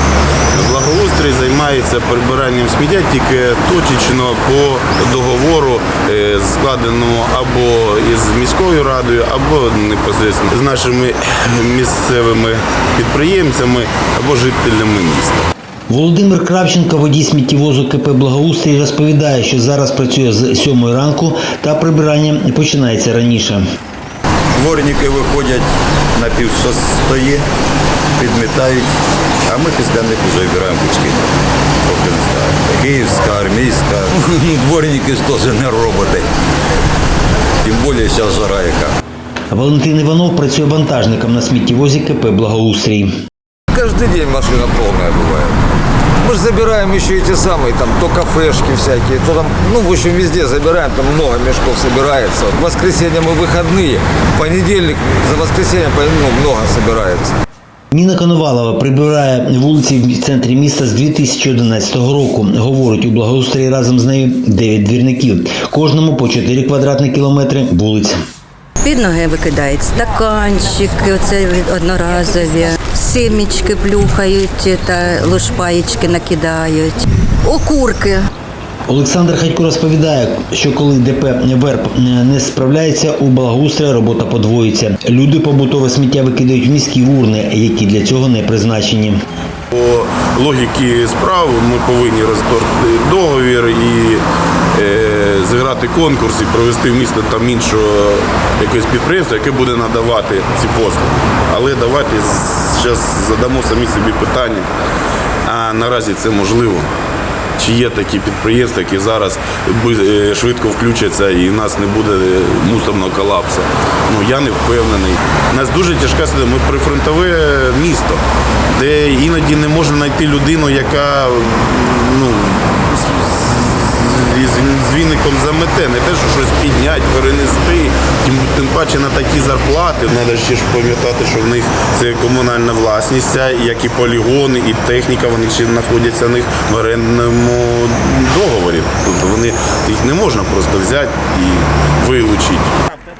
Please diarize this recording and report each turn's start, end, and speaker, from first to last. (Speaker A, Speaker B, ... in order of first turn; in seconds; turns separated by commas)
Speaker A: 0.5-15.5, Speaker B: 15.9-23.6, Speaker C: 24.5-27.4, Speaker C: 28.2-28.9, Speaker C: 29.5-36.3, Speaker C: 37.6-39.0, Speaker B: 39.5-43.1, Speaker D: 43.7-45.6, Speaker D: 46.2-57.4, Speaker B: 57.9-68.2, Speaker E: 68.8-78.2, Speaker B: 78.9-89.2, Speaker A: 89.7-94.2, Speaker A: 94.7-104.7, Speaker A: 105.4-106.9, Speaker A: 107.6-118.2, Speaker A: 118.7-142.7